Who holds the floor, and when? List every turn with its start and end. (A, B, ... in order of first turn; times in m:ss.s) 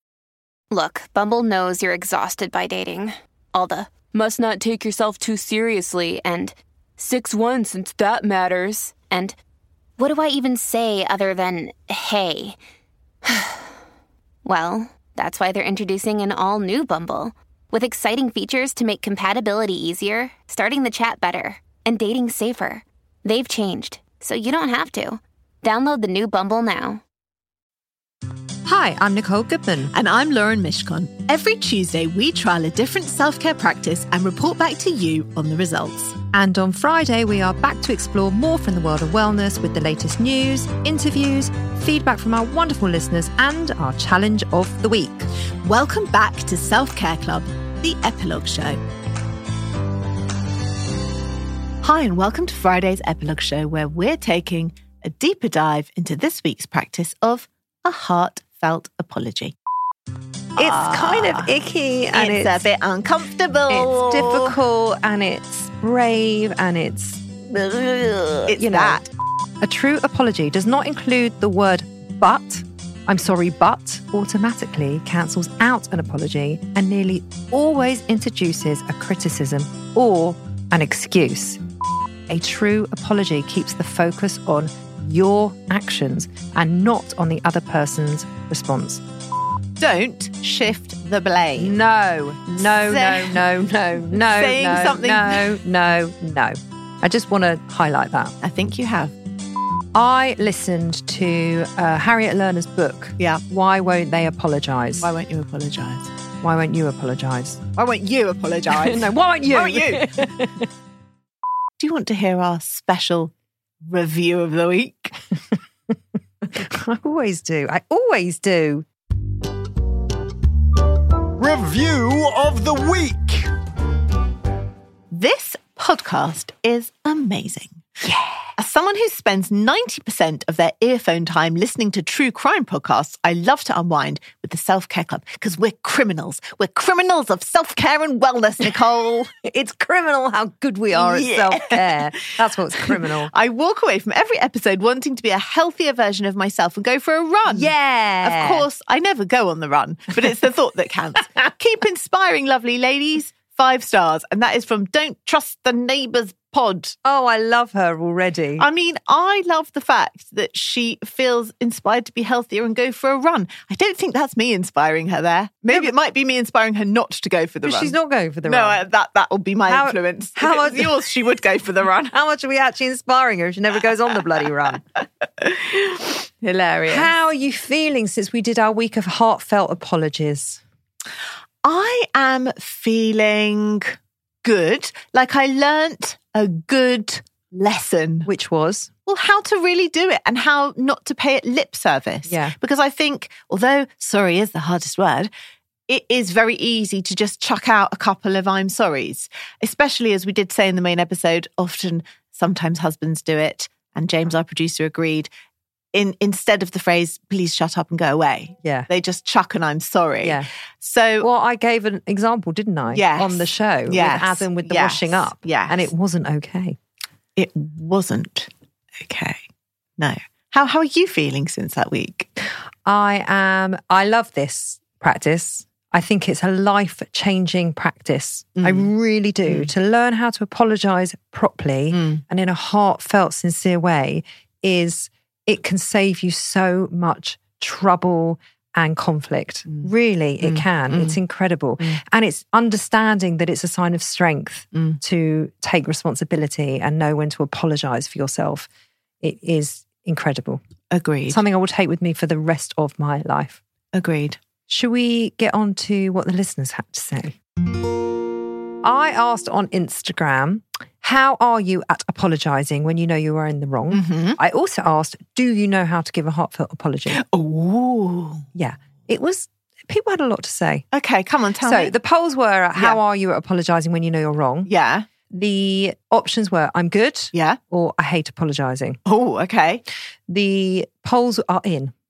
0:00.7-0:09.3 A
0:10.0-0:12.6 A
0:13.2-0:13.7 A
0:14.4-0:27.0 A
0:28.6-0:29.9 B
0:29.9-0:36.2 C
0:36.3-0:45.3 B
0:45.6-0:48.8 C
0:51.8-0:59.5 C
1:00.6-1:01.5 C
1:00.6-1:02.6 B
1:02.1-1:04.5 C
1:03.7-1:09.0 B
1:08.5-1:09.1 C
1:09.6-1:21.6 B
1:22.3-1:29.0 B
1:29.8-1:31.8 C
1:31.6-1:38.3 B
1:32.6-1:33.4 C
1:34.1-1:35.5 C
1:38.4-1:39.1 C
1:39.9-1:45.1 B
1:45.0-1:46.1 C
1:46.4-1:47.6 B
1:47.8-1:50.1 C
1:48.7-1:50.7 B
1:51.8-1:53.3 C
1:53.8-1:55.1 C
1:55.9-1:58.8 B
2:01.4-2:03.5 D
2:05.1-2:07.8 C
2:08.0-2:08.3 B
2:08.6-2:19.3 C
2:19.3-2:23.3 B
2:20.9-2:37.0 C
2:27.5-2:28.6 B
2:37.0-2:38.7 B
2:38.6-2:52.1 C
2:47.6-2:48.8 B
2:49.7-2:51.0 B
2:52.1-2:54.8 B
2:55.4-2:57.1 C
2:56.9-3:00.6 B
3:01.6-3:08.3 C
3:08.2-3:08.9 B
3:09.0-3:15.3 C
3:12.3-3:12.5 B
3:15.9-3:25.3 C
3:25.9-3:31.3 C
3:30.2-3:30.5 B
3:31.2-3:36.8 B
3:32.9-3:35.9 C
3:37.4-3:38.5 C
3:39.0-3:39.4 C
3:40.0-3:42.4 C
3:42.8-4:08.7 B
3:48.6-3:48.9 C
3:51.9-3:52.2 C
4:00.4-4:01.2 C
4:09.2-4:10.6 B
4:10.9-4:11.4 C
4:11.3-4:13.6 B
4:13.9-4:14.4 C
4:14.7-4:17.4 B
4:18.8-4:27.2 B
4:23.9-4:24.4 C
4:27.1-4:28.4 C
4:28.5-4:30.8 B
4:30.9-4:31.9 C
4:31.6-4:34.7 B
4:34.7-4:35.0 C
4:35.3-4:39.0 B
4:37.3-4:37.6 C
4:39.0-4:39.8 C
4:40.3-4:41.9 B